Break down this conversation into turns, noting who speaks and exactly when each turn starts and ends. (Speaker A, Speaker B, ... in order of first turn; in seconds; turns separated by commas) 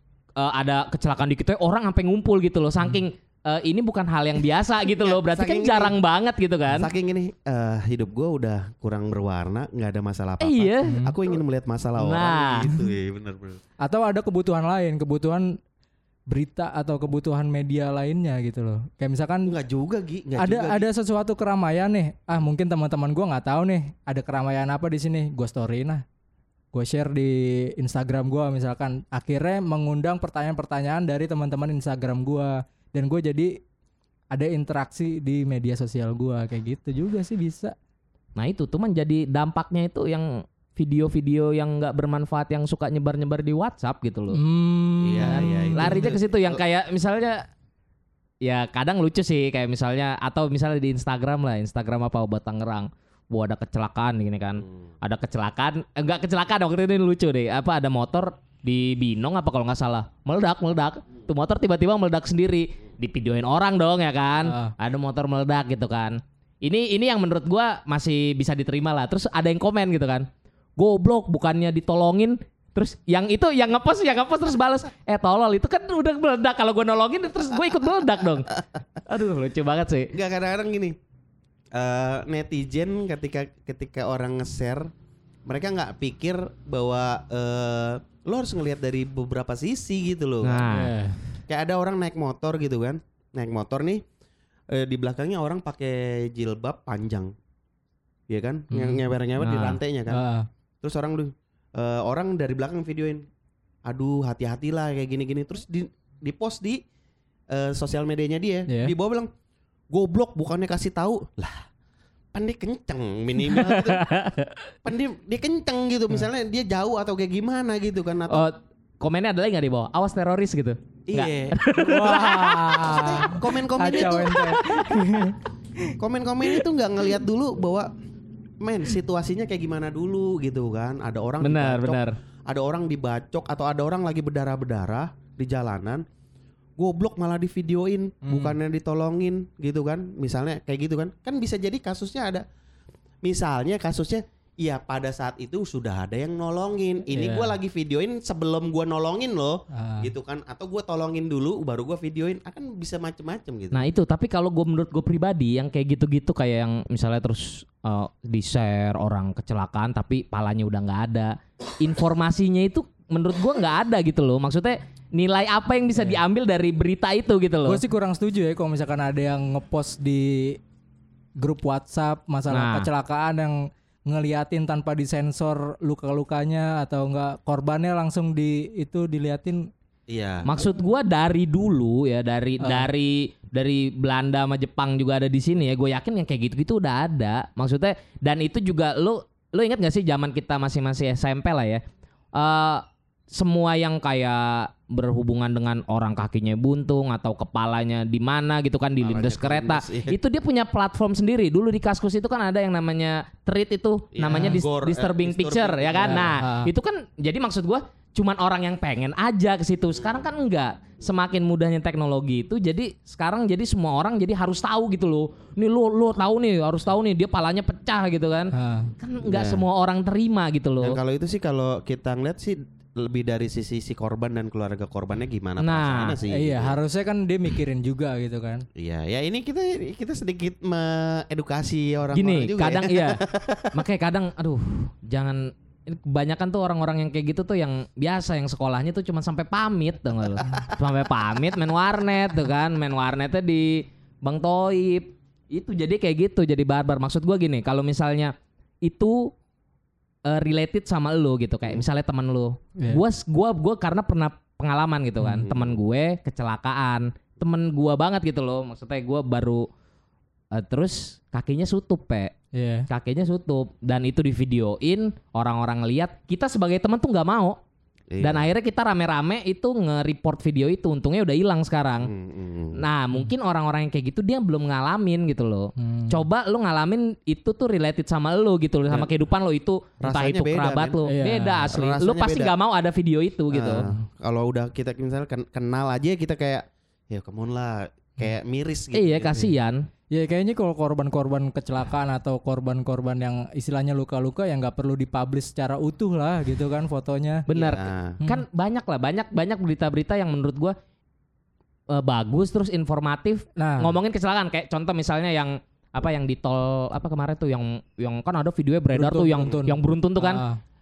Speaker A: 0.4-6.9, Speaker B: 5.0-6.0, Speaker B: 6.8-13.6, Speaker A: 10.4-10.9, Speaker C: 10.8-11.2, Speaker A: 12.0-12.7, Speaker C: 13.8-15.6, Speaker C: 16.3-19.5, Speaker B: 19.5-20.9, Speaker C: 20.4-26.0, Speaker C: 26.7-33.6, Speaker C: 34.3-37.8, Speaker A: 38.4-44.4, Speaker C: 44.3-46.1, Speaker B: 45.0-46.6, Speaker A: 45.2-47.5, Speaker A: 48.4-70.3, Speaker C: 64.5-64.7, Speaker A: 70.8-78.5, Speaker A: 79.1-80.1, Speaker B: 80.1-81.0, Speaker B: 81.7-84.9, Speaker B: 85.5-90.7, Speaker A: 90.4-90.9, Speaker C: 90.7-91.2, Speaker B: 91.5-94.0, Speaker B: 94.7-97.3, Speaker B: 98.3-100.2, Speaker C: 98.7-100.5, Speaker B: 100.8-103.3, Speaker B: 103.9-106.8, Speaker B: 107.5-109.3, Speaker C: 108.7-108.9, Speaker B: 109.9-111.7, Speaker B: 112.3-114.0, Speaker A: 113.4-114.6, Speaker B: 114.8-118.5, Speaker A: 118.3-123.3, Speaker B: 121.1-121.6, Speaker C: 121.8-126.0, Speaker B: 122.8-124.7, Speaker A: 124.3-125.2, Speaker B: 126.0-127.9, Speaker B: 128.6-136.1, Speaker A: 131.4-132.2, Speaker B: 136.8-142.4, Speaker C: 138.3-138.6, Speaker B: 143.2-153.9, Speaker C: 147.1-147.6, Speaker C: 149.7-150.1, Speaker A: 153.7-167.8, Speaker C: 167.7-170.6, Speaker C: 171.4-179.7, Speaker A: 172.5-172.9, Speaker B: 180.1-180.5, Speaker A: 180.4-191.8, Speaker C: 182.6-182.9, Speaker A: 192.3-221.0, Speaker B: 199.0-200.2, Speaker B: 204.1-206.3, Speaker C: 204.3-204.6, Speaker C: 206.0-206.7, Speaker C: 218.6-218.9, Speaker B: 219.2-219.6, Speaker B: 220.8-226.8, Speaker A: 225.6-226.2, Speaker C: 226.3-228.7, Speaker B: 228.8-233.8, Speaker A: 232.1-233.2, Speaker A: 233.7-248.3, Speaker B: 240.4-240.7, Speaker A: 248.8-249.3, Speaker A: 250.3-259.7, Speaker C: 252.8-253.0, Speaker B: 255.4-255.8, Speaker A: 260.5-262.3, Speaker C: 262.5-262.9, Speaker A: 262.9-267.6, Speaker B: 268.1-268.5, Speaker A: 268.2-272.1, Speaker B: 272.0-272.8, Speaker A: 272.8-283.9, Speaker C: 275.8-276.2, Speaker B: 280.0-281.1, Speaker C: 281.1-281.7, Speaker B: 281.7-282.5, Speaker B: 283.5-289.5, Speaker A: 288.9-289.9, Speaker C: 290.1-297.5, Speaker A: 297.5-300.8, Speaker B: 297.5-298.2, Speaker A: 301.9-310.4, Speaker C: 303.6-303.9, Speaker C: 308.9-310.6